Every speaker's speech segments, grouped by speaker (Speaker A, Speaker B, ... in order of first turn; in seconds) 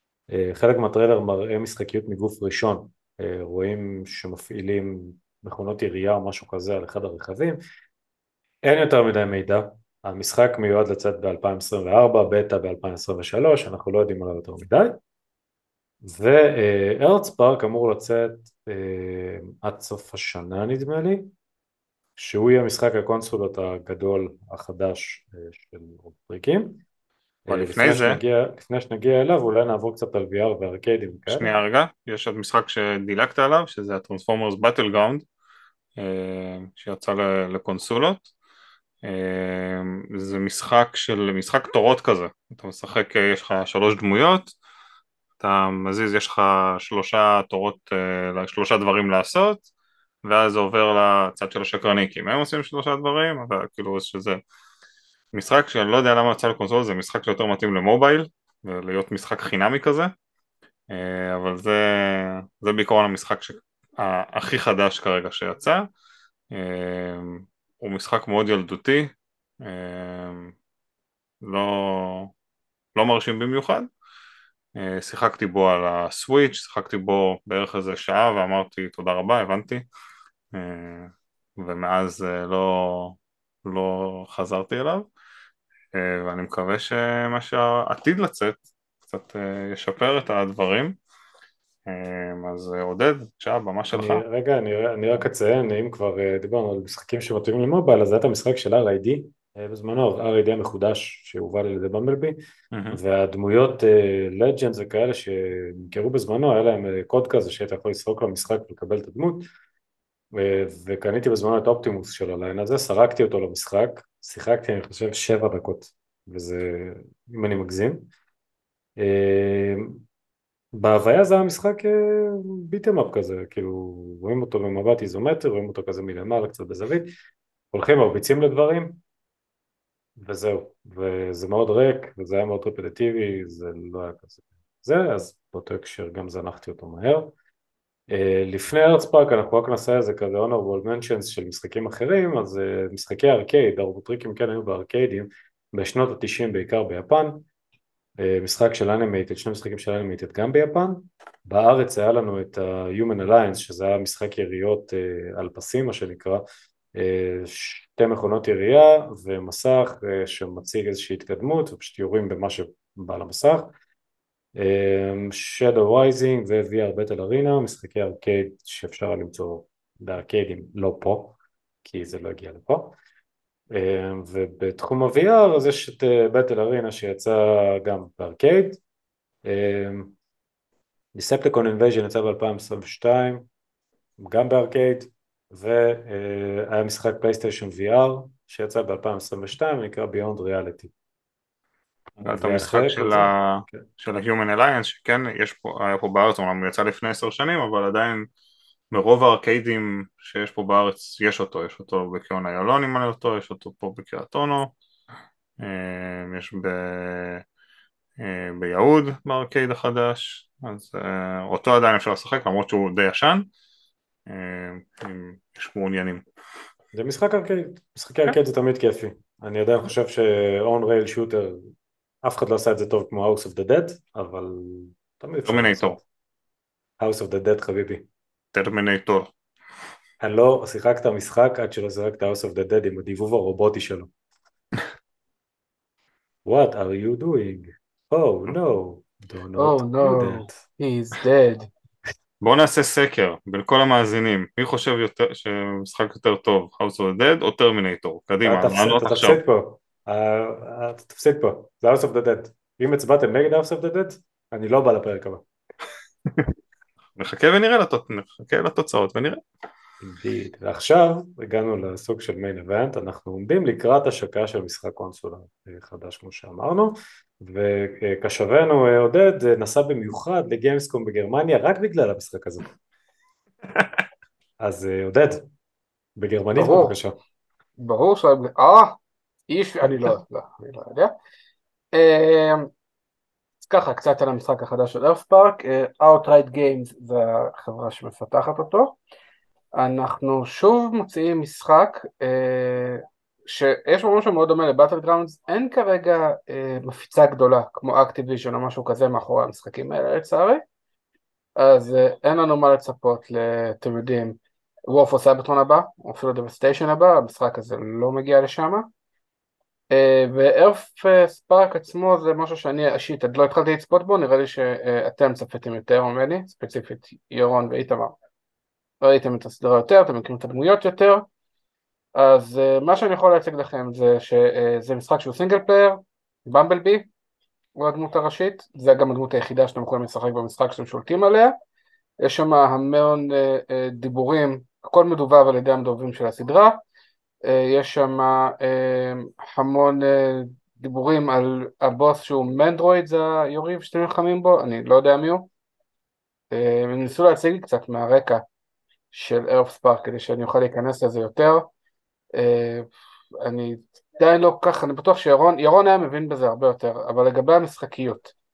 Speaker A: 0.3-7.6, 8.6-15.0, 16.0-21.3, 22.2-26.8, 27.5-31.5, 93.9-102.4, 102.9-109.5, 110.3-118.1, 119.0-120.0, 120.7-127.1, 127.7-129.0, 130.2-137.3, 138.1-147.5, 148.2-156.4, 156.9-163.7, 164.6-173.0, 173.7-178.8, 179.4-180.2, 181.1-183.5, 184.2-190.9, 192.2-193.9, 216.9-221.7, 222.2-226.0, 227.0-228.1, 230.2-234.1, 236.5-240.6, 248.4-255.4, 260.0-272.7, 274.6-275.5, 276.2-277.2
Speaker B: 27.5-28.2, 31.3-35.2, 36.0-38.3, 39.0-44.5, 45.4-49.6, 50.2-54.4, 55.3-60.1, 60.9-65.9, 66.5-70.5, 71.4-72.3, 73.0-73.9, 74.8-79.9, 80.5-85.1, 85.9-91.0, 91.9-94.2, 102.7-103.0, 192.2-198.3, 198.9-204.8, 205.6-207.4, 208.2-213.5, 214.3-216.2, 225.5-226.0, 228.5-229.3, 242.4-249.4, 257.2-259.4
Speaker C: 239.6-241.7, 276.6-277.0, 277.8-281.1, 281.9-282.7, 283.6-289.0, 289.8-300.6, 301.6-308.9, 309.9-318.1, 319.0-321.3, 322.1-327.1, 327.8-331.6, 332.2-336.8, 337.4-345.5, 346.5-348.4, 349.1-351.7, 352.4-358.3